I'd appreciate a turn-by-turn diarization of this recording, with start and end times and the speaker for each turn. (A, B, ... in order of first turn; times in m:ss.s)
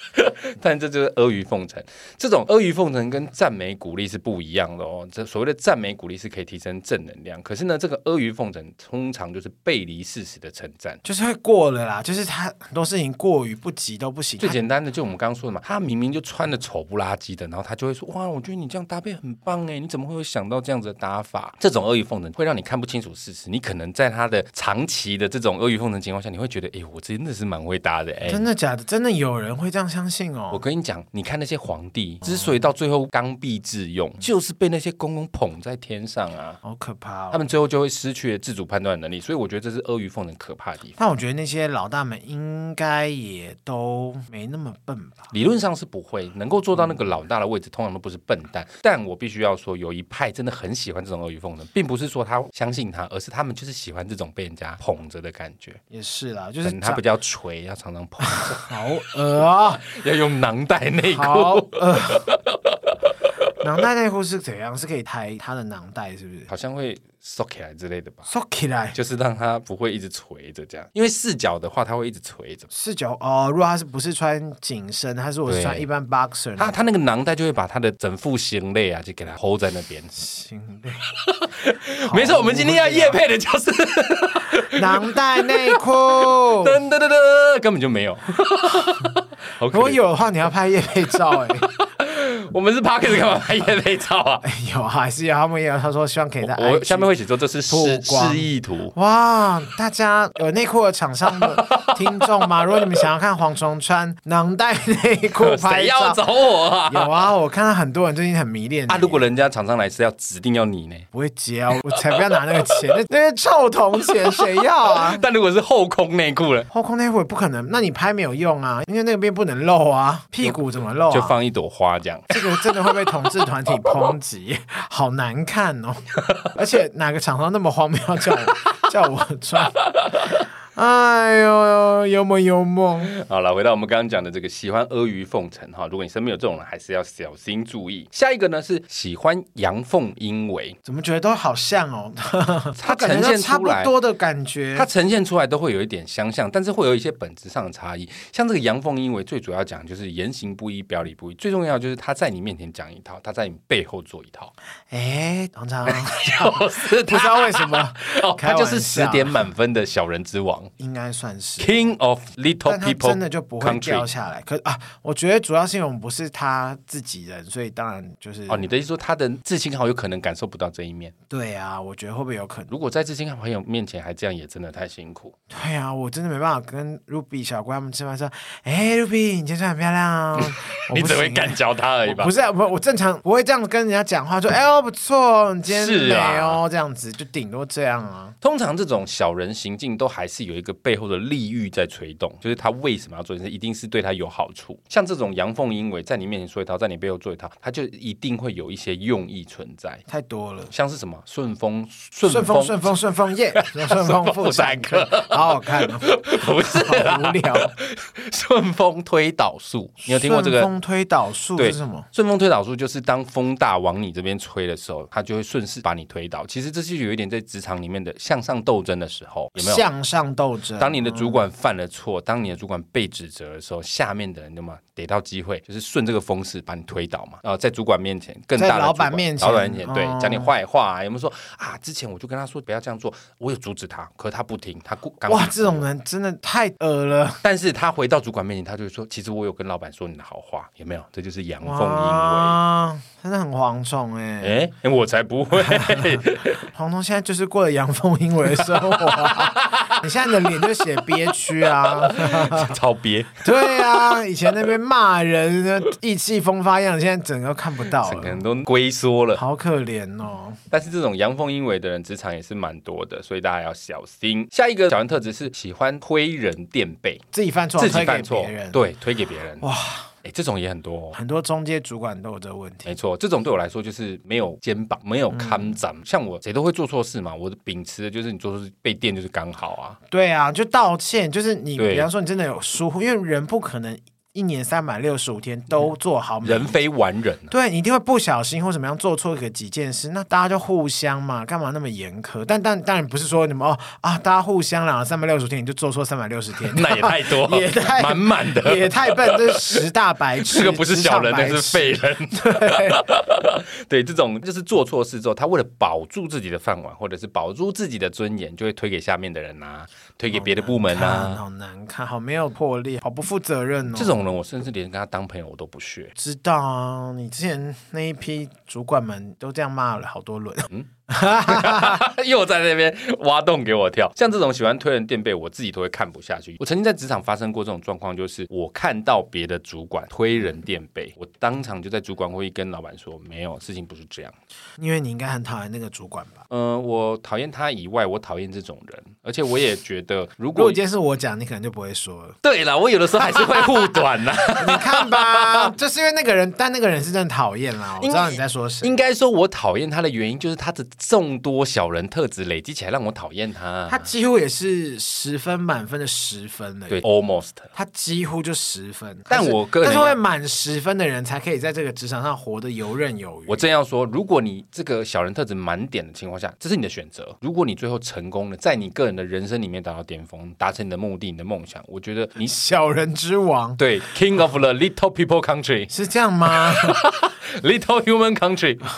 0:00.1-0:11.0 A
0:11.0-0:14.6 B
0:14.4-0:28.5 A
0:28.3-0:30.6 B
0:30.5-0:36.6 A
0:32.2-0:32.5 B
0:36.6-0:37.4 B
0:37.3-0:41.0 A
0:41.0-0:45.3 B
0:45.3-0:55.8 A
0:55.9-0:57.0 B
0:56.6-0:58.8 A
0:58.2-0:59.8 B
0:59.4-1:03.5 A
1:01.0-1:02.3 B
1:03.6-1:06.5 B
1:06.5-1:08.3 A
1:08.3-1:09.0 B
1:08.9-1:12.7 A
1:12.7-1:16.8 B
1:15.5-1:15.8 A
1:16.6-1:20.1 A
1:20.1-1:21.1 B
1:21.2-1:30.0 A
1:22.0-1:23.2 B
1:24.6-1:26.8 B
1:29.7-1:31.7 B
1:31.6-1:34.4 A
1:34.4-1:37.1 B
1:36.4-1:38.9 A
1:37.7-1:46.2 B
1:41.3-1:42.3 A
1:45.4-1:47.2 A
1:46.9-1:49.2 B
1:48.9-1:51.0 A
1:51.1-1:55.2 B
1:51.9-1:52.9 A
1:54.0-1:56.7 A
1:56.7-2:01.4 B
2:01.1-2:02.4 A
2:02.3-2:09.8 B
2:10.0-2:10.3 A
2:10.7-2:13.1 B
2:13.1-2:20.8 A
2:20.8-2:24.9 B
2:22.8-2:24.0 A
2:24.7-2:34.5 A
2:34.9-2:39.4 B
2:35.8-2:40.7 A
2:40.8-2:41.9 B
2:41.6-2:44.1 A
2:42.6-2:48.7 B
2:48.5-2:51.1 A
2:51.3-2:52.7 B
2:52.7-2:55.4 A
2:55.5-3:08.3 B
3:00.4-3:02.3 A
3:05.7-3:06.6 A
3:08.4-3:20.0 A
3:20.1-3:20.7 B
3:20.7-3:22.9 A
3:22.2-3:27.7 B
3:23.6-3:30.7 A
3:30.0-3:32.1 B
3:31.6-3:39.8 A
3:39.6-3:41.4 B
3:40.8-3:55.8 A
3:48.6-3:50.5 B
3:55.3-3:57.4 B
3:57.4-4:02.6 A
4:01.6-4:04.6 B
4:04.4-4:06.6 A
4:05.6-4:12.8 B
4:08.5-4:10.8 A
4:11.4-4:14.2 A
4:13.4-4:18.4 B
4:18.0-4:19.4 A
4:19.4-4:20.6 B
4:20.7-4:27.2 A
4:27.3-4:28.8 B
4:27.8-4:29.7 A
4:29.6-4:30.1 B
4:30.2-4:31.2 A
4:31.1-4:32.9 B
4:32.8-4:40.0 A
4:35.3-4:35.8 B
4:40.1-4:46.8 B
4:41.8-4:42.1 A
4:46.4-4:47.5 A
4:47.5-5:03.1 B
4:56.6-4:59.8 A
5:00.4-5:11.4 A
5:10.3-5:14.1 B
5:13.9-5:16.1 A
5:16.1-5:22.0 B
5:20.7-5:34.3 A
5:34.8-5:36.4 B
5:36.5-5:40.8 A
5:40.6-5:42.4 B
5:42.4-5:45.7 A
5:44.6-5:48.9 B
5:48.0-5:54.1 A
5:53.9-5:57.0 B
5:56.9-5:57.7 A
5:57.7-6:03.6 B
5:59.3-6:00.2 A
6:03.5-6:12.5 A
6:12.4-6:13.8 B
6:13.8-6:15.9 A
6:15.9-6:17.0 B
6:16.5-6:18.8 A